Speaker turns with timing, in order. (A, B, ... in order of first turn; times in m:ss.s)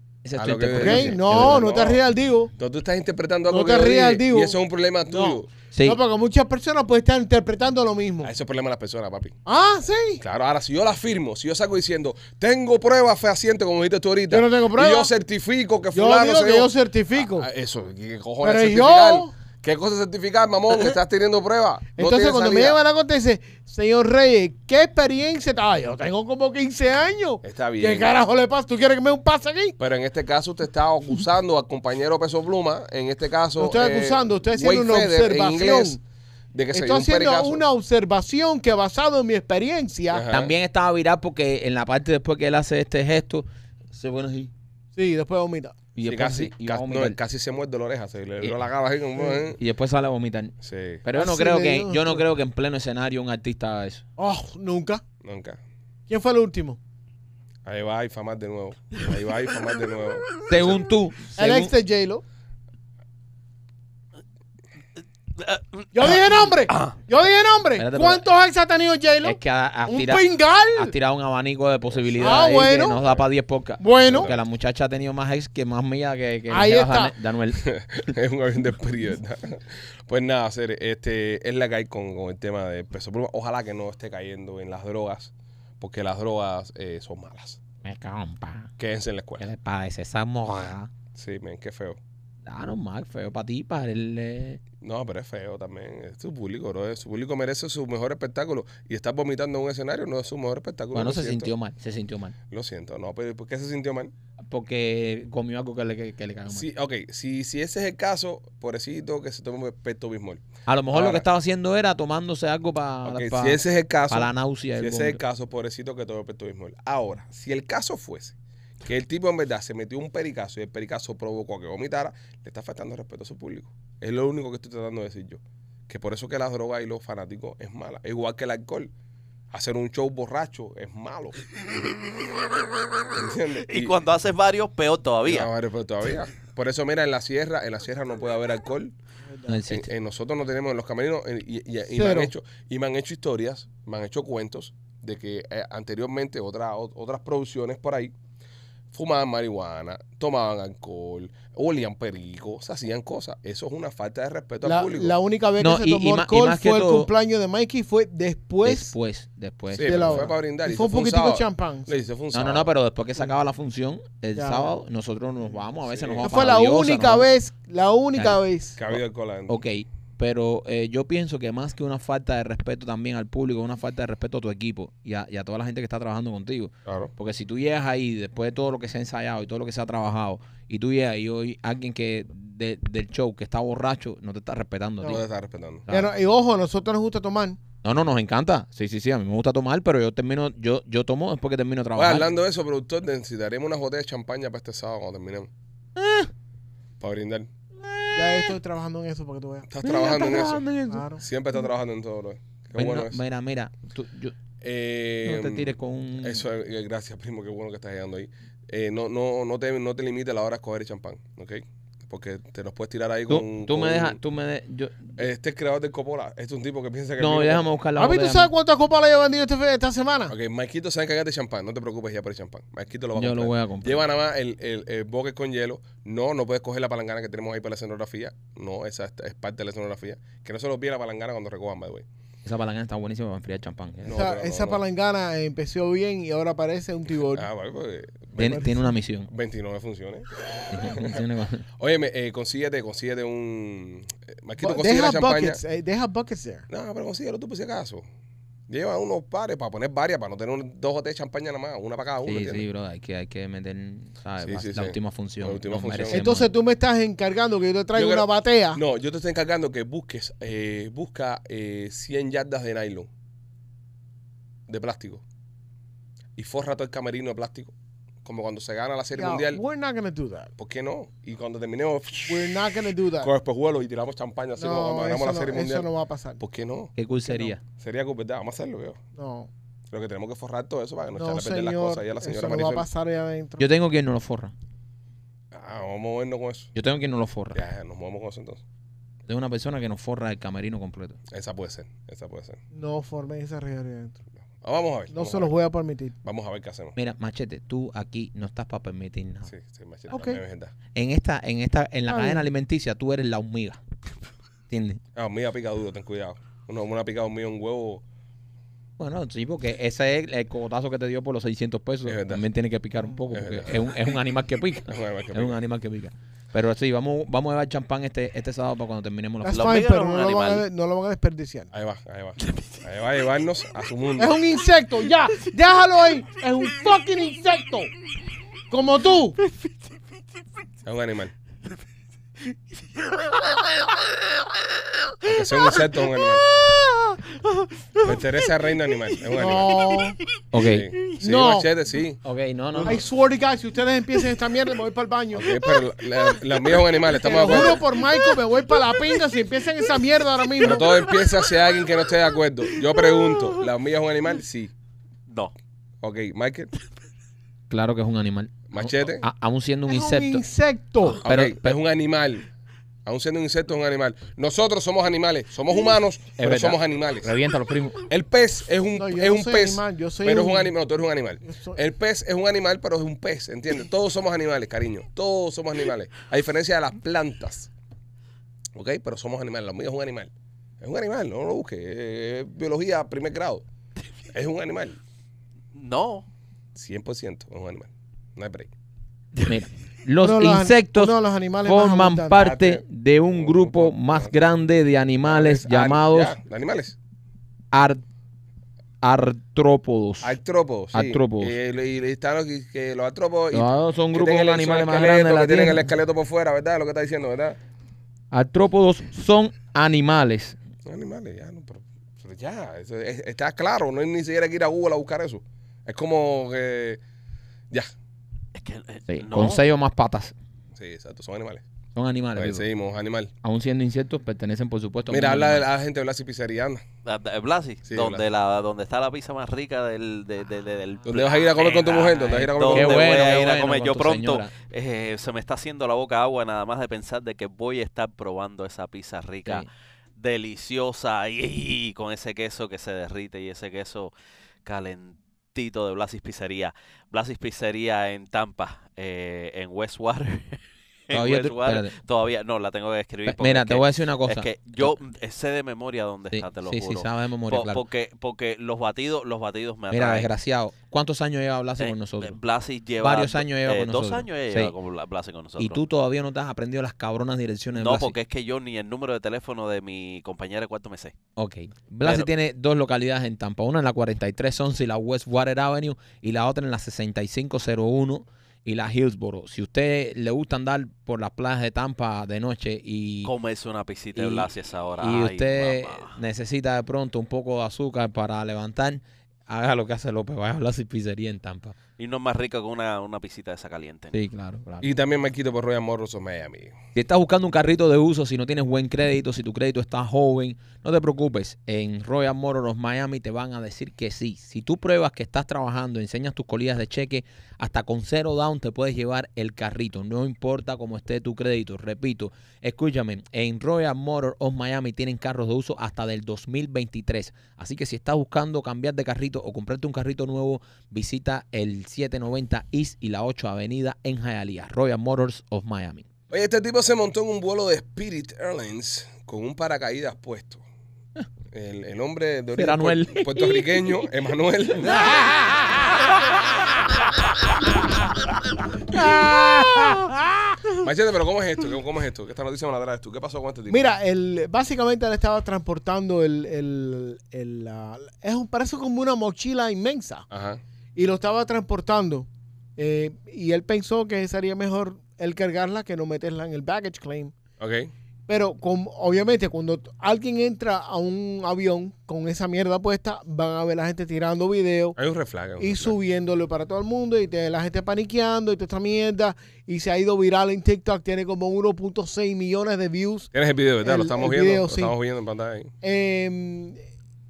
0:00.2-0:01.6 A
0:00.4-0:02.0 B
0:00.7-0:02.5 C
0:02.6-0:05.5 B
0:03.5-0:08.3 C
0:05.7-0:06.0 A
0:08.2-0:09.4 B
0:09.5-0:10.2 C
0:10.2-0:22.8 B
0:14.3-0:15.1 C
0:15.9-0:17.5 C
0:18.4-0:19.3 C
0:22.0-0:29.8 C
0:27.4-0:28.1 B
0:29.8-0:36.0 B
0:33.6-0:36.0 C
0:36.5-0:37.6 B
0:36.7-0:40.3 C
0:40.1-0:40.5 B
0:40.3-0:44.5 A
0:45.0-0:45.8 C
0:46.0-0:47.2 A
0:46.0-0:49.6 B
0:49.6-0:54.0 A
0:50.6-0:51.0 B
0:51.2-0:52.2 C
0:54.2-0:55.0 C
0:55.2-0:55.6 B
0:56.1-0:56.8 C
0:57.7-1:00.8 B
1:00.5-1:01.7 A
1:01.4-1:02.2 C
1:05.4-1:07.0 D
1:05.9-1:10.9 C
1:07.8-1:08.3 A
1:09.2-1:18.1 A
1:12.0-1:12.4 B
1:12.2-1:13.0 C
1:13.8-1:14.3 C
1:14.0-1:14.4 B
1:16.5-1:17.1 C
1:17.6-1:27.6 B
1:27.8-1:28.7 A
1:28.8-1:29.4 B
1:29.4-1:30.9 A
1:31.2-1:32.0 B
1:32.5-1:34.6 A
1:34.8-1:41.5 B
1:40.9-1:42.4 A
1:42.5-1:44.1 B
1:44.5-1:46.7 A
1:46.5-1:51.3 B
1:50.7-1:55.2 A
1:53.0-2:08.9 B
2:09.5-2:11.4 B
2:13.1-2:14.0 B
2:13.6-2:15.5 D
2:15.2-2:18.9 B
2:19.3-2:19.6 C
2:19.5-2:19.9 A
2:19.7-2:28.1 B
2:21.9-2:22.3 C
2:28.9-2:35.2 B
2:34.6-2:39.0 C
2:35.6-2:37.1 A
2:38.6-2:40.3 A
2:39.7-2:42.7 B
2:39.8-2:41.9 C
2:42.3-2:47.3 A
2:44.4-2:44.7 C
2:45.9-2:46.5 B
2:46.2-2:48.8 C
2:48.2-2:48.4 A
2:48.8-2:49.6 B
2:49.5-3:05.2 A
2:56.9-2:57.1 B
3:05.0-3:05.9 B
3:05.9-3:07.6 C
3:07.8-3:12.3 A
3:12.0-3:15.5 B
3:16.0-3:16.3 A
3:17.0-3:17.5 B
3:17.8-3:18.6 A
3:18.1-3:19.7 C
3:19.7-3:20.6 B
3:19.8-3:21.1 A
3:20.9-3:21.2 C
3:21.2-3:23.2 B
3:22.8-3:24.3 A
3:24.6-3:34.2 B
3:25.2-3:26.4 A
3:33.3-3:35.2 A
3:35.2-3:37.6 B
3:37.2-3:38.5 A
3:38.0-3:40.4 C
3:40.3-3:52.0 B
3:43.2-3:44.0 A
3:52.4-3:54.2 A
3:54.0-3:54.8 B
3:54.1-3:57.5 C
3:57.3-3:58.6 B
3:58.4-3:59.3 A
3:58.4-3:58.8 C
3:59.3-4:01.2 B
4:00.7-4:01.6 A
4:01.8-4:05.6 B
4:04.6-4:06.7 C
4:06.7-4:08.0 B
4:08.7-4:12.6 B
4:12.2-4:16.5 A
4:14.4-4:16.2 B
4:16.1-4:18.8 C
4:17.9-4:23.1 B
4:24.7-4:25.2 B
4:26.4-4:29.6 B
4:29.2-4:30.5 C
4:30.6-4:32.6 B
4:32.2-4:33.3 C
4:33.2-4:35.9 B
4:34.6-4:36.4 C
4:36.4-4:36.9 B
4:37.0-4:37.6 A
4:37.3-4:37.5 C
4:37.8-4:39.0 B
4:39.2-4:39.5 C
4:39.9-4:42.9 B
4:41.2-4:43.7 C
4:43.6-4:44.5 A
4:45.5-4:46.7 B
4:46.8-4:47.6 A
4:47.5-4:48.6 B
4:49.3-4:51.2 A
4:51.3-4:52.6 B
4:52.7-4:54.2 C
4:54.6-4:55.5 B
4:55.1-4:56.2 C
4:56.2-4:57.0 B
4:57.0-4:59.5 A
4:59.5-5:00.7 B
5:00.1-5:00.4 C
5:01.0-5:03.8 A
5:02.1-5:02.4 C
5:04.7-5:05.0 A
5:05.2-5:08.0 B
5:09.0-5:19.7 A
5:12.0-5:12.5 B
5:13.3-5:13.9 B
5:14.8-5:15.6 B
5:19.4-5:21.7 C
5:19.5-5:20.6 D
5:21.7-5:24.4 B
5:22.4-5:22.7 D
5:24.2-5:27.9 C
5:28.7-5:29.4 C
5:30.8-5:31.3 B
5:33.0-5:34.0 D
5:35.2-5:36.4 B
5:35.6-5:35.9 D
5:36.6-5:38.3 D
5:38.0-5:39.8 B
5:39.4-5:40.2 C
5:39.4-5:40.1 D
5:40.5-5:40.9 A
5:40.5-5:42.2 B
5:41.2-5:41.7 C
5:42.2-5:43.0 A
5:42.8-5:45.5 C
5:45.3-5:47.8 B
5:47.0-5:51.0 C
5:50.6-5:54.7 B
5:55.3-5:55.5 D
5:56.0-5:56.7 B
5:57.7-6:00.4 A
5:58.7-5:59.2 B
5:59.9-6:01.2 C
6:01.1-6:01.8 A
6:01.2-6:02.5 B
6:03.0-6:07.3 B
6:06.4-6:08.0 A
6:08.1-6:17.7 B
6:09.0-6:10.7 C
6:11.4-6:11.8 C
6:18.7-6:23.6 B
6:24.3-6:25.0 B
6:25.7-6:26.3 D
6:26.8-6:28.7 B
6:29.5-6:36.4 A
6:30.2-6:32.4 C
6:32.3-6:34.4 B
6:35.2-6:37.0 B
6:37.7-6:38.0 A
6:39.0-6:40.4 A
6:40.2-6:47.6 B
6:40.9-6:41.6 A
6:43.5-6:45.9 A
6:48.3-6:50.6 A
6:50.8-6:57.0 B
6:58.5-6:59.6 D
6:59.1-7:00.3 A
7:00.8-7:01.6 B
7:02.0-7:02.7 A
7:02.4-7:03.3 B
7:03.4-7:05.6 A
7:05.1-7:06.8 B
7:07.0-7:19.7 D
7:07.9-7:08.2 B
7:11.0-7:13.3 B
7:12.2-7:14.5 A
7:20.2-7:24.1 D
7:24.6-7:40.3 D
7:31.1-7:31.9 A
7:33.3-7:35.0 A
7:36.3-7:37.8 A
7:39.9-7:42.4 A
7:41.8-7:45.8 D
7:43.0-7:44.7 A
7:45.6-7:48.2 A
7:47.8-7:51.1 D
7:51.4-8:03.3 A
7:52.0-7:52.3 D
8:03.2-8:06.2 D
8:04.2-8:04.5 A
8:05.0-8:11.8 A
8:12.0-8:14.1 D
8:14.1-8:14.9 A
8:14.8-8:16.8 B
8:17.0-8:46.1 A
8:46.3-8:50.6 B
8:51.5-8:55.0 B
8:52.6-8:53.8 A
8:54.9-8:55.8 C
8:58.9-9:00.6 C
9:00.8-9:03.8 B
9:03.7-9:10.3 C
9:10.3-9:10.6 B
9:11.0-9:17.4 C
9:17.6-9:17.9 B
9:18.3-9:25.0 C
9:25.0-9:26.0 B
9:25.6-9:33.3 C
9:33.3-9:35.7 B
9:33.8-9:35.0 C
9:35.8-9:36.8 C